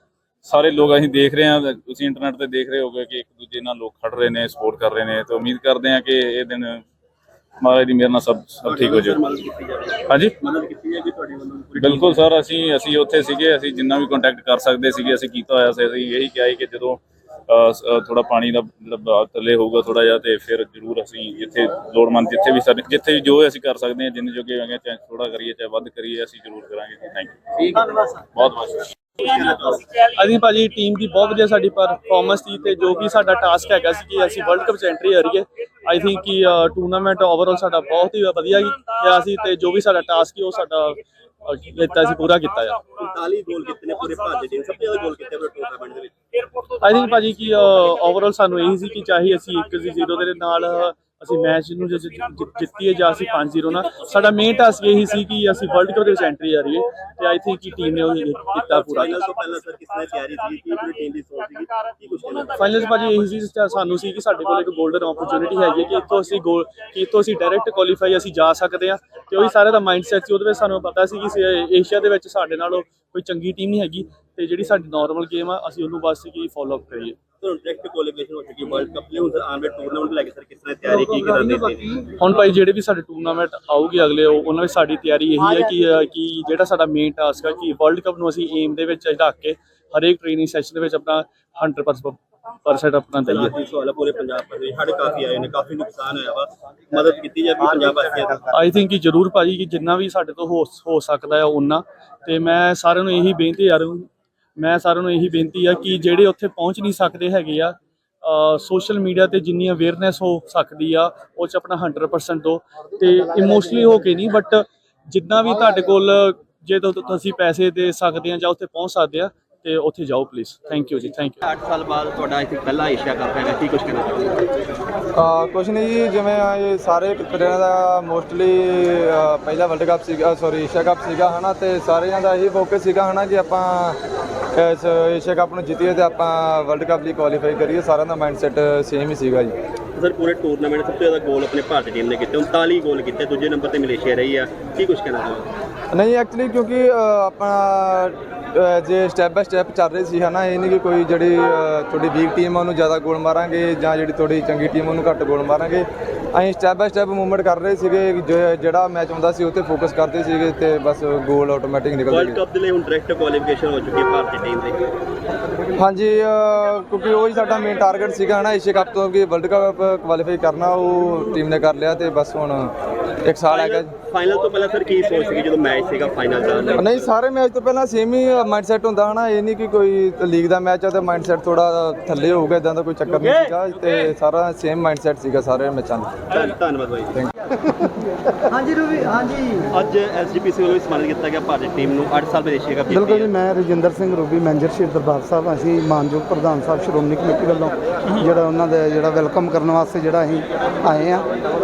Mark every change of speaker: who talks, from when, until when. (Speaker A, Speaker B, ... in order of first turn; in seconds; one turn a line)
Speaker A: 0.4-6.8
Speaker A: 7.6-9.2
Speaker B: 8.6-12.2
Speaker A: 10.1-10.3
Speaker A: 11.8-28.9
Speaker B: 29.2-29.8
Speaker C: 30.0-42.9
Speaker B: 42.9-46.1
Speaker C: 46.8-59.2
Speaker B: 58.7-62.6
Speaker C: 62.5-77.2
Speaker B: 77.4-82.1
Speaker C: 82.2-93.5
Speaker B: 93.2-98.5
Speaker C: 98.5-121.4
Speaker B: 121.4-124.4
Speaker D: 125.1-134.0
Speaker D: 134.5-139.5
Speaker B: 139.9-145.5
Speaker D: 145.9-162.4
Speaker B: 162.1-164.8
Speaker D: 165.7-172.7
Speaker D: 173.2-173.9
Speaker B: 173.5-177.1
Speaker D: 176.8-186.2
Speaker B: 186.3-187.2
Speaker B: 189.7-193.3
Speaker E: 192.9-201.2